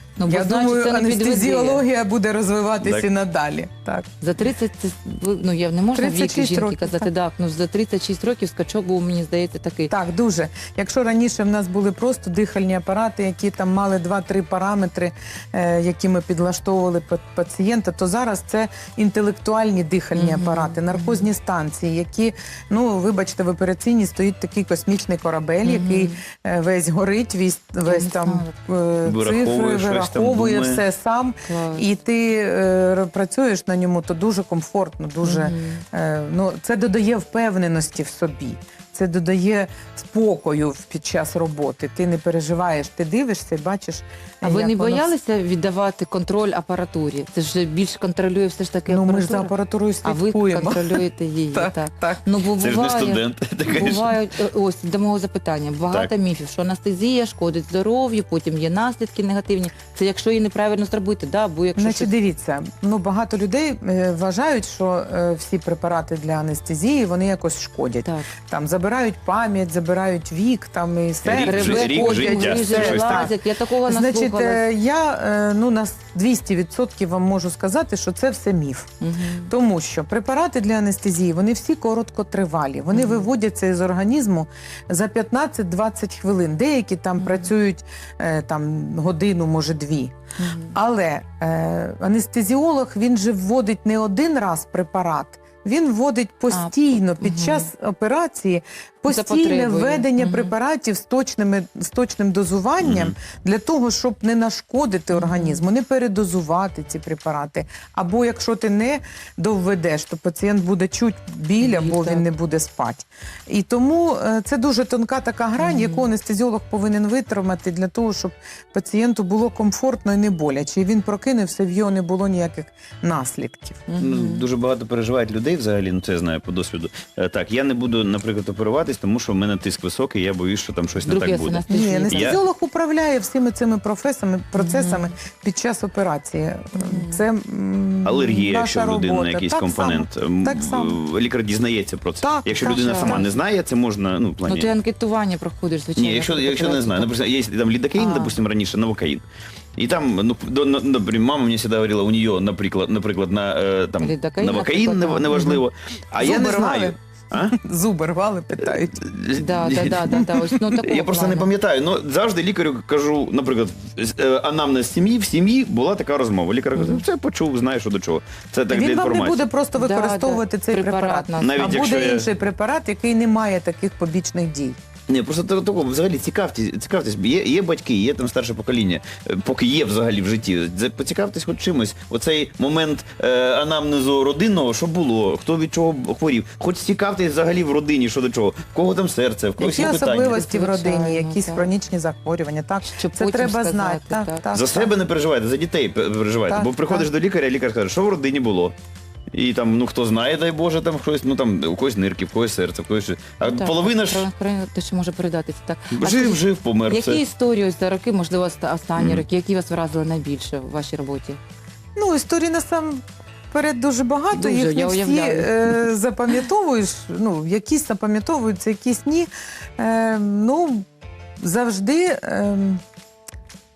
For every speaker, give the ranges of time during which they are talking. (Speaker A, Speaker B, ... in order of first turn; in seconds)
Speaker A: 0.2-1.8, 4.2-9.9, 20.1-21.3, 25.6-26.2, 27.9-28.5, 31.5-31.9, 35.2-35.8, 44.4-49.5, 50.0-62.1, 68.0-68.3, 71.4-74.7, 79.0-79.5, 82.9-83.3, 87.2-87.5, 90.4-90.8, 96.5-97.7, 99.1-100.5, 105.1-105.6, 111.6-112.2, 115.6-116.1, 123.9-124.5, 131.0-132.4, 134.6-135.1, 136.7-137.2, 142.6-143.4, 144.4-147.1, 147.9-148.4, 154.0-155.6, 159.4-161.5, 166.7-167.1, 169.8-171.8, 190.0-191.7, 192.8-194.4, 203.4-211.4, 214.3-215.9
Speaker B: 0.3-4.1, 6.0-7.1, 9.9-45.1, 48.9-52.2, 61.8-73.3, 73.9-78.9, 79.5-90.2, 90.7-123.8, 131.7-141.0, 142.2-143.3, 156.2-159.0, 160.1-160.6, 168.7-174.8, 189.6-194.9, 196.5-197.1, 212.0-220.9, 221.4-222.8
Speaker C: 2.8-3.1, 29.1-30.8, 52.6-54.2, 71.2-73.3, 102.8-103.2, 124.0-132.4, 138.0-144.7, 146.0-149.2, 149.8-157.6, 159.0-160.2, 160.8-169.5, 171.4-172.3, 175.1-190.4, 194.5-198.8, 199.3-204.3, 205.9-207.2, 209.0-209.2